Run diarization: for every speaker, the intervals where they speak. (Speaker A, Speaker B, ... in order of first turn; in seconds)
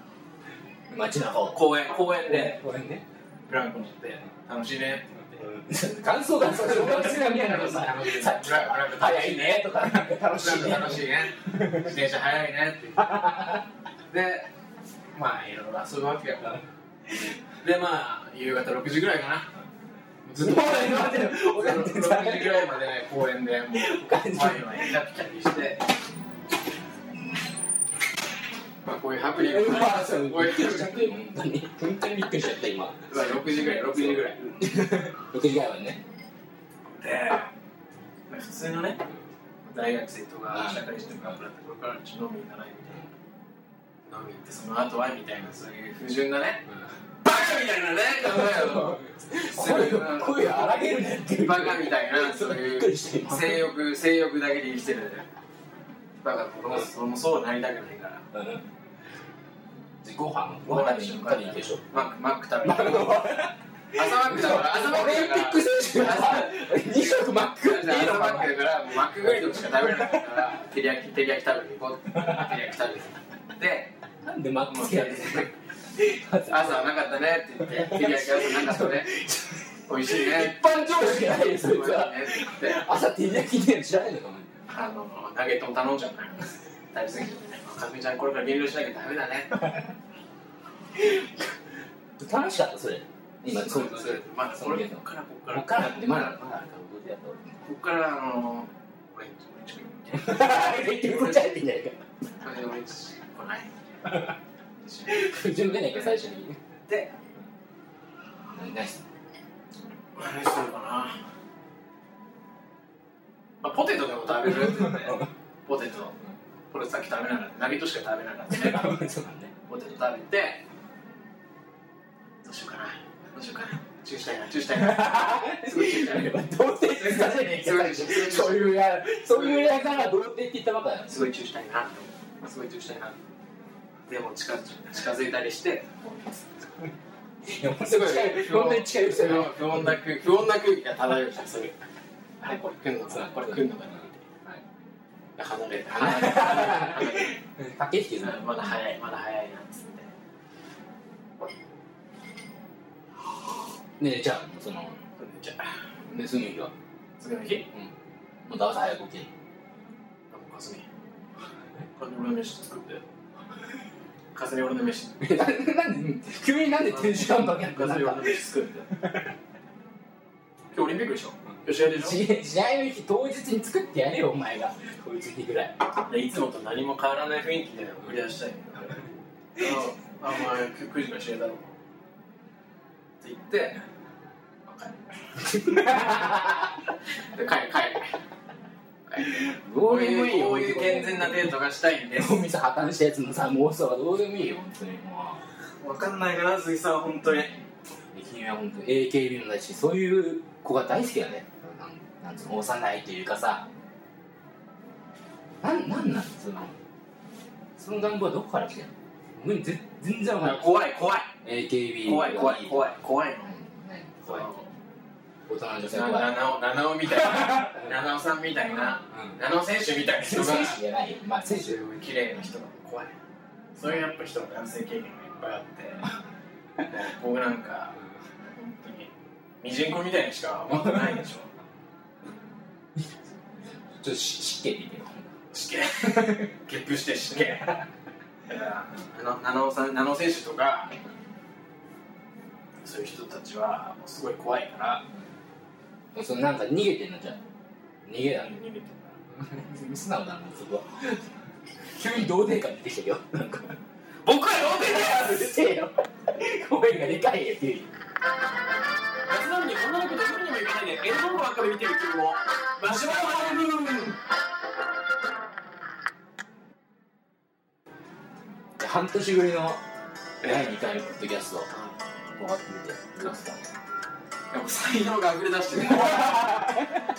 Speaker A: 0.9-1.6, 2.2-3.0, 5.4-11.1, 13.1-13.5, 20.4-22.8, 23.7-24.9, 29.4-36.0, 40.5-41.3, 48.2-53.7, 58.3-58.6, 60.0-62.0, 62.6-68.6, 69.2-70.2, 74.2-76.9, 77.6-84.5, 92.2-97.6, 100.2-102.0, 105.1-106.6, 108.5-109.0, 118.5-119.5, 124.8-131.3, 137.5-139.9, 143.1-143.6, 145.9-148.6, 154.0-155.0, 156.1-156.7, 158.5-159.3, 165.2-168.4, 171.8-175.8, 185.6-186.4, 189.2-191.5, 192.2-195.4, 198.1-203.7, 205.6-206.8, 207.8-210.8, 211.4-212.9, 213.5-214.5, 215.5-216.5, 220.2-221.8, 234.0-235.3, 246.1-247.4, 248.1-248.6, 249.4-251.2, 252.0-253.8, 254.7-257.9, 262.9-263.9, 268.8-269.8, 270.4-271.7, 272.4-273.6, 276.0-277.0
Speaker B: 1.5-2.6, 3.5-5.5, 6.5-13.3, 14.1-14.5, 15.1-16.6, 17.6-19.5, 20.2-25.9, 28.9-31.1, 33.1-34.6, 36.9-37.5, 38.3-39.0, 39.6-43.1, 44.1-46.6, 47.2-55.3, 56.2-58.2, 60.7-63.3, 63.9-73.9, 74.7-75.5, 76.5-79.1, 79.9-82.9, 84.7-89.8, 93.4-96.4, 97.6-101.5, 102.4-103.7, 104.8-106.2, 106.9-107.2, 110.2-111.2, 113.6-116.2, 116.7-118.9, 119.7-120.6, 122.4-130.0, 131.1-133.2, 134.1-136.4, 137.8-141.7, 142.4-144.2, 145.4-147.4, 148.2-150.1, 155.2-155.7, 157.2-157.7, 160.3-160.9, 162.0-163.1, 164.3-165.5, 166.8-168.9, 170.7-172.2, 176.0-179.0, 179.6-181.7, 183.2-183.8, 184.7-185.0, 185.8-186.2, 187.3-188.2, 189.1-192.4, 195.8-197.6, 210.4-211.3, 212.0-213.6, 214.3-214.7, 215.9-220.8, 221.5-223.1, 223.8-226.1, 226.8-228.0, 228.5-229.1, 229.6-231.5, 235.5-237.8, 238.5-241.0, 242.8-245.1, 248.3-249.2, 254.2-255.3, 259.3-264.1, 270.4-270.8, 271.7-271.9, 274.5-276.5